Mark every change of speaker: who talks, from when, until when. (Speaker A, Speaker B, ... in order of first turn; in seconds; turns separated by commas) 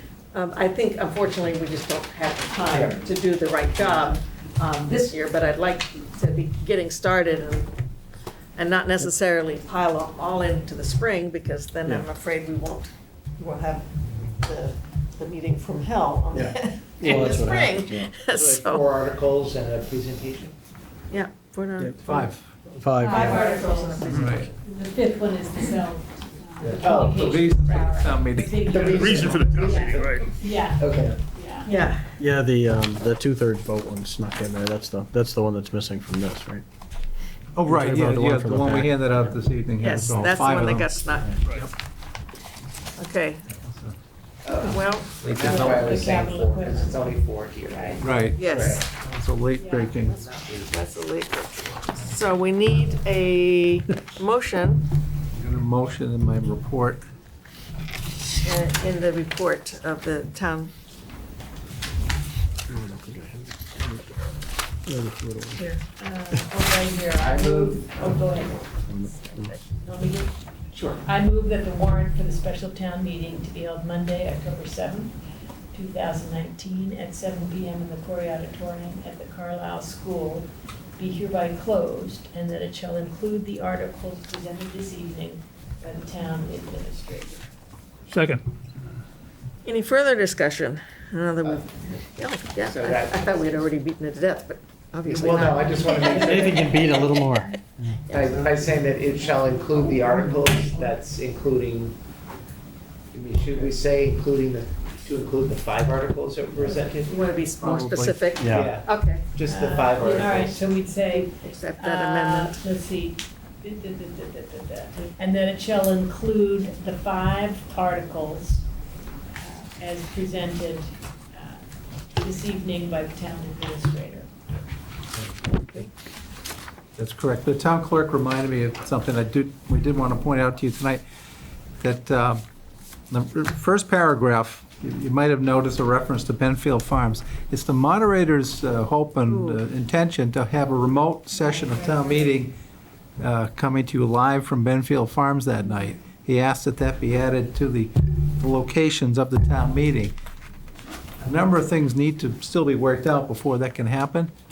Speaker A: 0.3-7.7, Speaker B: 2.7-3.0, Speaker A: 8.6-18.9, Speaker C: 16.3-18.2, Speaker B: 18.4-20.5, Speaker A: 21.1-22.3, Speaker D: 22.0-22.5, Speaker C: 22.7-23.5, Speaker A: 23.0-24.5, Speaker E: 23.0-31.8, Speaker D: 24.1-24.5, Speaker F: 24.1-24.4, Speaker D: 26.6-29.1, Speaker B: 26.7-27.9, Speaker B: 28.6-31.1, Speaker F: 28.9-30.4, Speaker A: 31.6-32.2, Speaker C: 32.2-36.6, Speaker D: 37.5-41.7, Speaker C: 37.6-39.0, Speaker A: 39.8-41.4, Speaker A: 43.0-43.5, Speaker D: 43.5-43.9, Speaker B: 44.4-48.9, Speaker A: 44.6-45.1, Speaker D: 45.2-45.7, Speaker E: 45.4-48.0, Speaker D: 48.0-50.2, Speaker A: 48.4-48.9, Speaker E: 49.5-50.0, Speaker A: 50.0-54.9, Speaker B: 50.0-50.7, Speaker D: 55.3-57.0, Speaker A: 58.4-60.7, Speaker C: 62.7-64.2, Speaker C: 64.8-65.6, Speaker E: 65.5-70.3, Speaker B: 67.2-68.1, Speaker C: 69.0-69.5, Speaker A: 70.7-71.0, Speaker E: 71.0-75.2, Speaker E: 75.7-87.4, Speaker F: 88.1-88.4, Speaker A: 89.6-97.3, Speaker B: 92.6-93.6, Speaker B: 95.1-96.8, Speaker C: 96.1-98.0, Speaker A: 98.0-100.8, Speaker B: 98.1-102.0, Speaker E: 100.0-100.6, Speaker B: 103.1-107.2, Speaker A: 107.0-109.3, Speaker D: 107.6-108.2, Speaker C: 108.4-108.7, Speaker B: 108.5-110.5, Speaker E: 109.4-118.6, Speaker A: 111.1-112.6, Speaker E: 119.3-121.6, Speaker E: 122.2-124.3, Speaker D: 125.1-125.9, Speaker D: 127.0-131.0, Speaker D: 131.8-132.4, Speaker D: 133.1-142.5, Speaker A: 139.2-139.6, Speaker E: 141.4-142.3, Speaker D: 143.2-150.1, Speaker D: 151.2-154.3